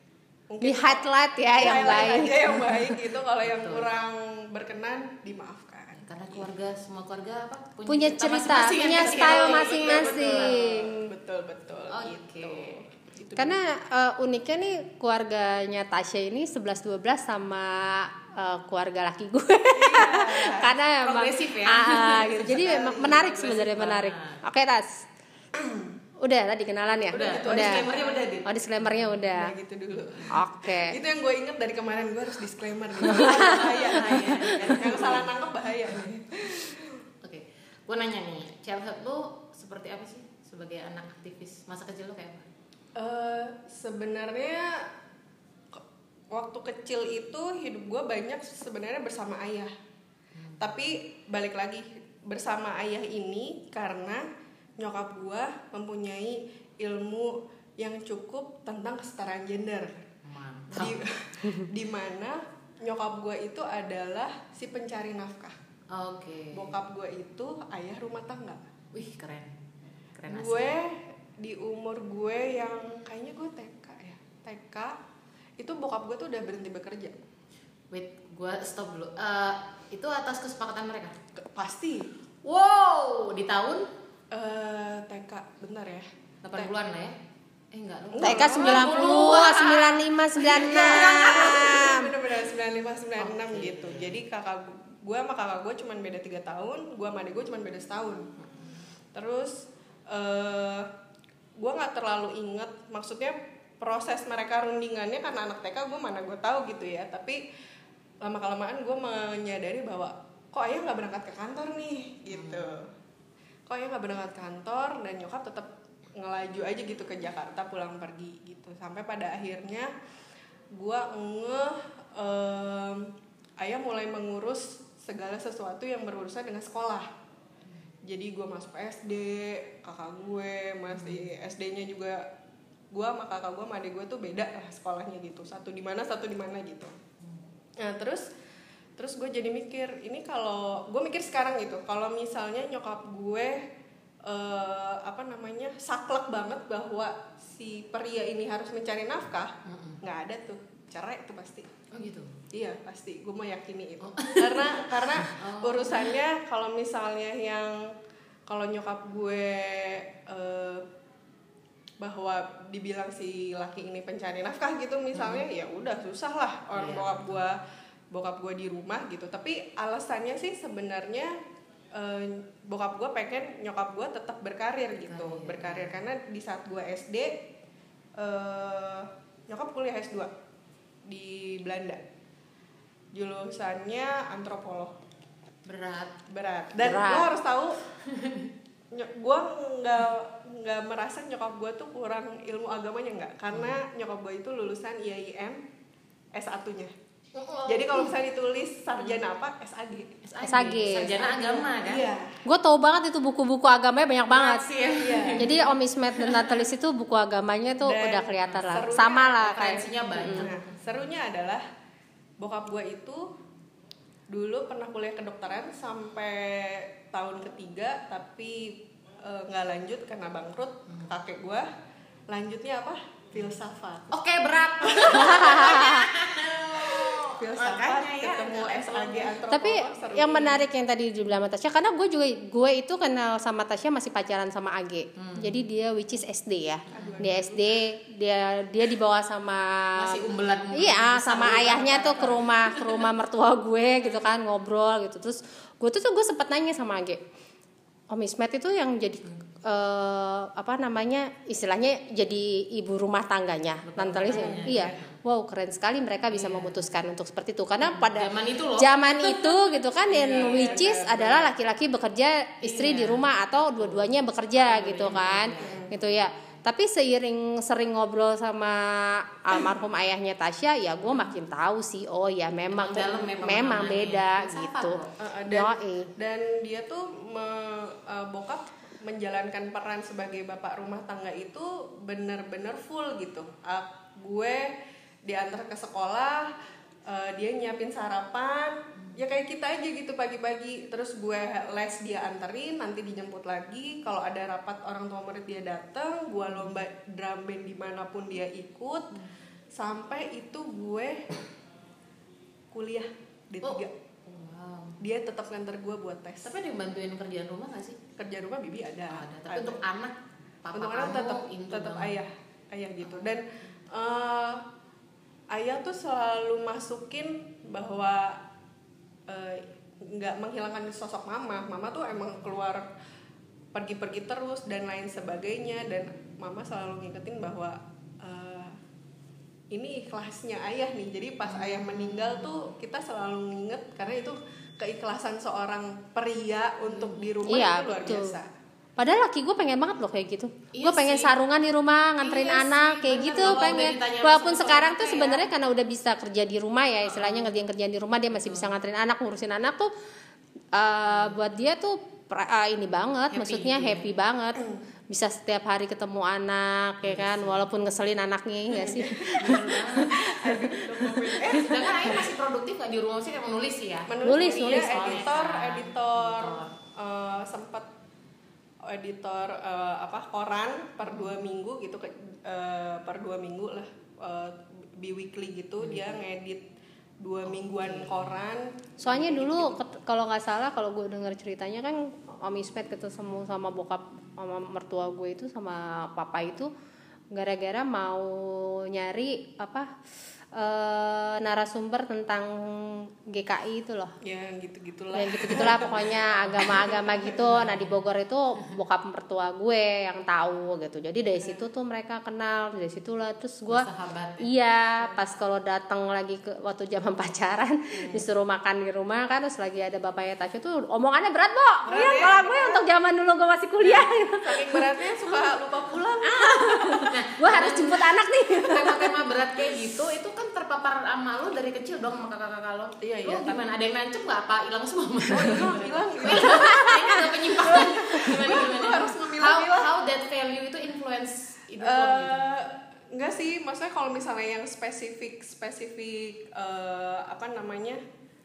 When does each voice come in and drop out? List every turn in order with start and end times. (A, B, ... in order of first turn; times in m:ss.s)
0:00.5-0:01.0 A
0:00.6-0:02.8 B
0:01.6-0:06.5 A
0:03.4-0:03.9 C
0:06.0-0:10.7 C
0:07.9-0:11.0 B
0:08.8-0:13.6 A
0:11.9-0:12.8 C
0:13.4-0:25.0 B
0:19.7-0:20.8 A
0:21.0-0:24.4 C
0:22.2-0:23.6 A
0:25.6-0:25.9 A
0:26.2-0:27.8 B
0:27.1-0:29.2 C
0:27.1-0:28.3 A
0:28.4-0:29.5 B
0:29.3-0:37.0 A
0:29.9-0:30.3 C
0:30.3-0:31.0 B
0:33.1-0:35.3 C
0:33.2-0:33.6 B
0:34.3-0:34.8 B
0:37.2-0:42.4 C
0:43.0-0:44.7 A
0:45.7-0:49.7 A
0:50.3-0:50.6 C
0:50.6-0:54.2 A
0:54.8-1:00.0 A
1:00.2-1:01.0 C
1:00.7-1:05.6 A
1:05.9-1:06.7 C
1:06.5-1:08.7 A
1:08.9-1:09.5 C
1:10.2-1:10.7 C
1:10.3-1:15.0 A
1:15.6-1:17.2 A
1:17.9-1:21.2 C
1:21.3-1:22.1 A
1:22.4-1:23.8 C
1:24.3-1:26.7 A
1:26.4-1:27.1 C
1:27.7-1:30.0 C
1:28.1-1:29.2 A
1:28.2-1:32.1 B
1:30.4-1:38.3 A
1:30.8-1:31.2 C
1:33.2-1:34.2 C
1:38.4-1:38.7 C
1:39.1-1:40.9 A
1:41.6-1:47.4 A
1:48.2-1:52.9 A
1:52.3-1:52.7 C
1:53.7-1:59.9 A
2:00.7-2:07.1 A
2:08.0-2:12.3 A
2:10.9-2:11.3 C
2:12.9-2:17.0 A
2:17.8-2:18.3 A
2:19.0-2:23.6 A
2:24.2-2:31.7 A
2:29.6-2:30.0 C
2:31.9-2:32.3 C
2:32.5-2:37.8 A
2:34.0-2:36.1 C
2:38.5-2:40.8 A
2:42.0-2:47.6 A
2:45.1-2:45.4 C
2:46.7-2:47.4 C
2:48.1-2:51.4 A
2:51.9-2:57.3 A
2:55.1-2:56.0 C
2:58.2-3:00.3 A
3:01.0-3:02.0 A
3:03.1-3:05.0 A
3:05.6-3:06.1 C
3:06.3-3:07.8 A
3:06.8-3:07.3 B
3:08.0-3:08.5 C
3:08.9-3:15.6 A
3:13.5-3:13.8 C
3:16.4-3:16.9 A
3:17.4-3:18.1 C
3:17.7-3:22.4 A
3:20.2-3:22.1 C
3:20.4-3:21.2 B
3:22.4-3:24.6 B
3:24.3-3:25.6 C
3:25.0-3:25.7 A
3:25.4-3:30.5 B
3:26.1-3:26.6 C
3:27.8-3:31.6 A
3:29.4-3:30.7 C
3:32.4-3:33.3 A
3:34.3-3:41.7 A
3:40.9-3:41.2 C
3:42.3-3:44.2 A
3:44.1-3:49.4 C
3:44.8-3:45.6 A
3:45.1-3:46.1 B
3:46.4-3:50.6 A
3:49.5-4:00.2 B
3:55.2-3:55.6 C
3:56.9-3:57.2 C
3:56.9-3:57.7 A
4:00.0-4:03.1 C
4:00.7-4:07.2 B
4:08.1-4:36.1 B
4:13.8-4:15.2 C
4:14.3-4:14.9 A
4:16.3-4:16.8 C
4:17.8-4:19.6 C
4:20.1-4:21.5 A
4:20.3-4:20.8 C
4:22.6-4:26.4 C
4:25.6-4:25.9 A
4:32.7-4:35.1 C
4:35.2-4:44.7 A
4:45.2-4:46.5 A
4:47.1-4:59.2 A
4:59.8-5:01.2 A
5:02.7-5:03.9 A
5:03.6-5:05.0 C
5:05.0-5:06.5 A
5:06.4-5:08.0 C
5:08.2-5:09.8 A
5:09.1-5:12.2 C
5:10.7-5:14.6 A
5:15.5-5:18.4 A
5:19.3-5:22.9 A
5:23.7-5:28.8 A
5:29.7-5:38.5 A
5:31.4-5:32.7 C
5:36.8-5:37.3 C
5:37.5-5:38.3 B
5:39.0-5:49.9 B
5:40.7-5:41.3 C
5:42.2-5:45.4 C
5:47.0-5:47.6 C
5:48.3-5:48.7 C
5:50.7-6:01.7 B
5:53.3-5:54.1 C
5:57.0-5:57.6 C
5:58.7-6:02.3 A
5:59.3-6:00.3 C
6:01.5-6:06.7 C
6:04.1-6:07.9 A
6:04.2-6:05.2 B
6:08.8-6:16.6 A
6:11.0-6:11.4 C
6:15.8-6:16.2 C
6:17.2-6:19.8 A
6:17.4-6:18.4 C
6:19.0-6:26.7 B
6:27.3-6:29.9 B
6:30.5-6:34.1 B
6:34.2-6:37.6 A
6:35.1-6:43.9 B
6:37.5-6:38.0 C
6:43.7-6:44.5 C
6:44.4-6:55.3 B
6:51.9-6:52.8 A
6:53.9-6:57.1 A
6:56.3-6:59.1 B
6:57.1-7:12.4 C
7:03.0-7:03.6 A
7:05.3-7:09.9 A
7:06.3-7:08.3 B
7:11.8-7:18.0 A